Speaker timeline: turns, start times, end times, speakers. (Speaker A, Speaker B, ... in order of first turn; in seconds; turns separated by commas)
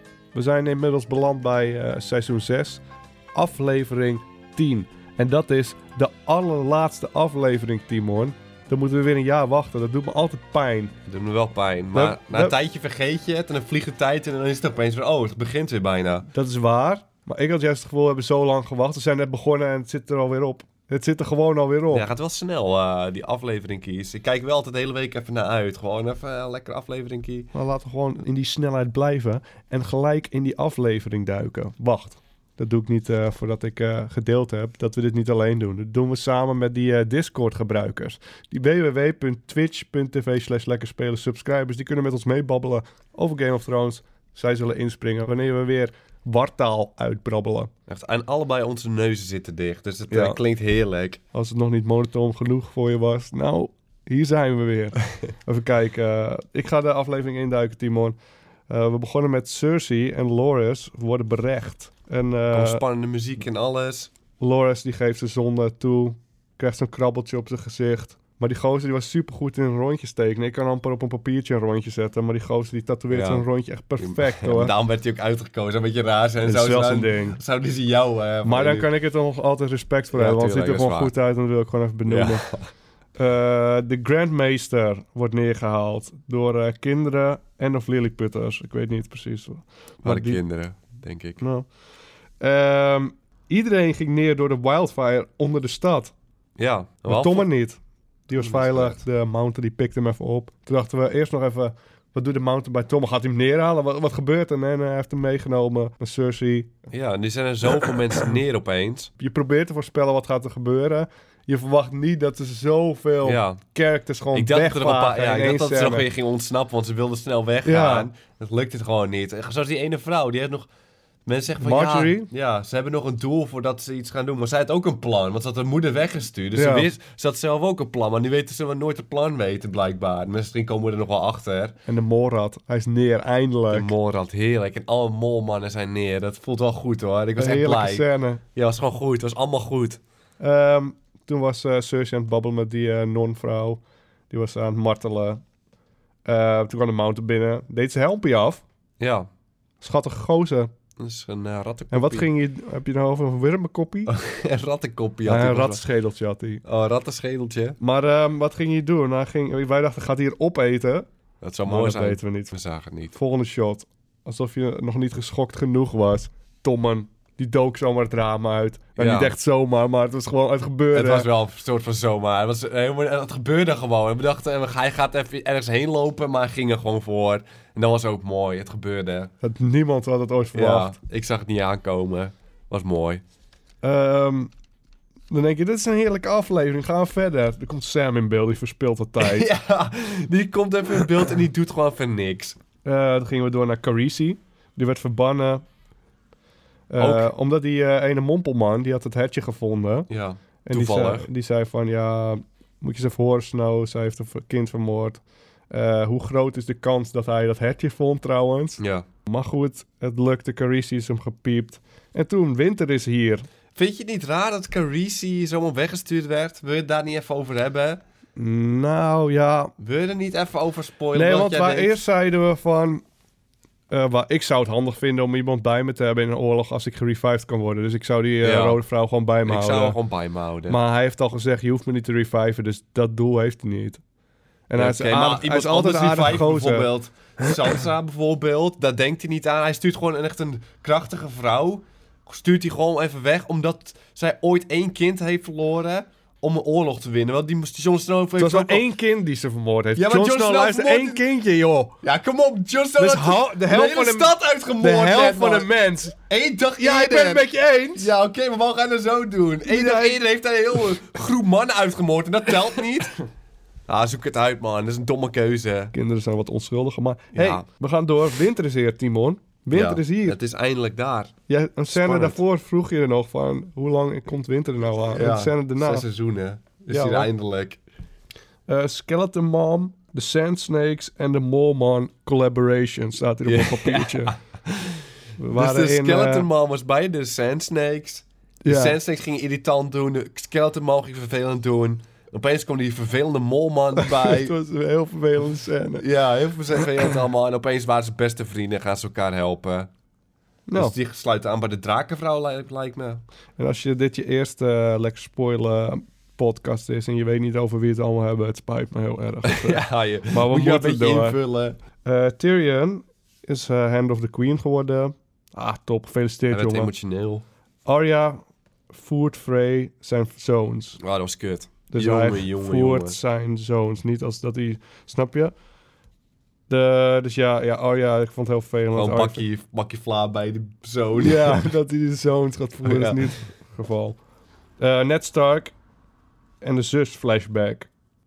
Speaker A: 0.3-2.8, Speaker A: 3.4-10.9, Speaker B: 11.1-16.3, Speaker A: 11.9-12.6, Speaker A: 16.3-22.1, Speaker B: 21.9-27.5, Speaker A: 27.5-47.7, Speaker B: 47.9-51.2, Speaker A: 50.1-50.4, Speaker A: 51.3-58.2, Speaker A: 58.7-62.8, Speaker B: 62.5-64.1, Speaker A: 64.4-74.8, Speaker B: 73.1-73.5, Speaker B: 74.0-78.9, Speaker A: 76.4-77.4, Speaker A: 78.4-82.5, Speaker B: 80.1-81.1, Speaker B: 82.1-82.7, Speaker A: 83.2-90.4, Speaker B: 90.0-91.4, Speaker A: 91.4-91.7, Speaker A: 92.4-96.1, Speaker B: 96.6-97.5, Speaker A: 97.0-106.7, Speaker B: 98.3-99.0, Speaker B: 106.9-109.1, Speaker A: 109.2-116.1, Speaker B: 113.2-113.6, Speaker B: 114.3-120.7, Speaker A: 117.6-118.1, Speaker B: 121.3-131.8, Speaker A: 121.6-122.3, Speaker A: 126.5-126.9, Speaker A: 131.9-133.9, Speaker B: 133.7-140.0, Speaker A: 137.4-138.4, Speaker A: 140.4-145.4, Speaker A: 146.2-148.6, Speaker B: 149.0-149.3, Speaker A: 149.8-150.7, Speaker B: 151.0-152.3, Speaker A: 151.9-154.2, Speaker B: 154.1-155.8, Speaker A: 155.2-156.6, Speaker B: 156.6-157.8, Speaker A: 157.8-161.1, Speaker B: 161.4-163.1, Speaker A: 161.7-162.6, Speaker A: 163.1-171.3, Speaker B: 169.0-169.3, Speaker B: 170.9-179.3, Speaker A: 179.4-181.0, Speaker B: 180.6-183.2, Speaker A: 183.8-184.5, Speaker A: 185.3-189.5, Speaker B: 189.2-192.6, Speaker A: 192.8-195.6, Speaker A: 196.9-200.1, Speaker B: 197.0-197.3, Speaker B: 200.1-201.3, Speaker A: 200.6-213.5, Speaker B: 208.8-209.1, Speaker B: 213.8-218.0, Speaker A: 218.4-219.7, Speaker B: 219.8-222.0, Speaker A: 221.1-223.0, Speaker A: 223.9-230.0, Speaker B: 228.4-228.8, Speaker B: 229.4-230.8, Speaker A: 230.7-234.0, Speaker A: 234.7-236.9, Speaker B: 234.8-248.8, Speaker A: 248.4-252.0, Speaker B: 250.0-251.2, Speaker B: 252.0-263.1, Speaker A: 253.0-256.2, Speaker A: 256.8-258.1, Speaker A: 259.6-260.2, Speaker B: 263.9-265.9, Speaker A: 265.9-270.4, Speaker B: 267.3-267.6, Speaker B: 269.7-271.3, Speaker A: 271.5-276.1, Speaker B: 271.9-272.4, Speaker B: 275.1-277.8, Speaker A: 276.9-277.3, Speaker A: 278.7-284.4, Speaker B: 283.4-294.5, Speaker A: 285.4-286.5, Speaker A: 288.6-289.0, Speaker A: 294.0-296.1, Speaker B: 296.0-299.9, Speaker A: 300.7-300.9, Speaker B: 300.7-303.2, Speaker A: 303.6-311.4, Speaker B: 309.5-311.8, Speaker A: 312.0-316.9, Speaker B: 316.5-317.4, Speaker A: 317.9-321.0, Speaker B: 321.0-323.2, Speaker A: 321.9-325.5, Speaker A: 326.7-329.4, Speaker B: 328.9-331.7, Speaker A: 331.2-334.2, Speaker B: 332.8-333.4, Speaker A: 334.8-335.7, Speaker A: 336.6-337.9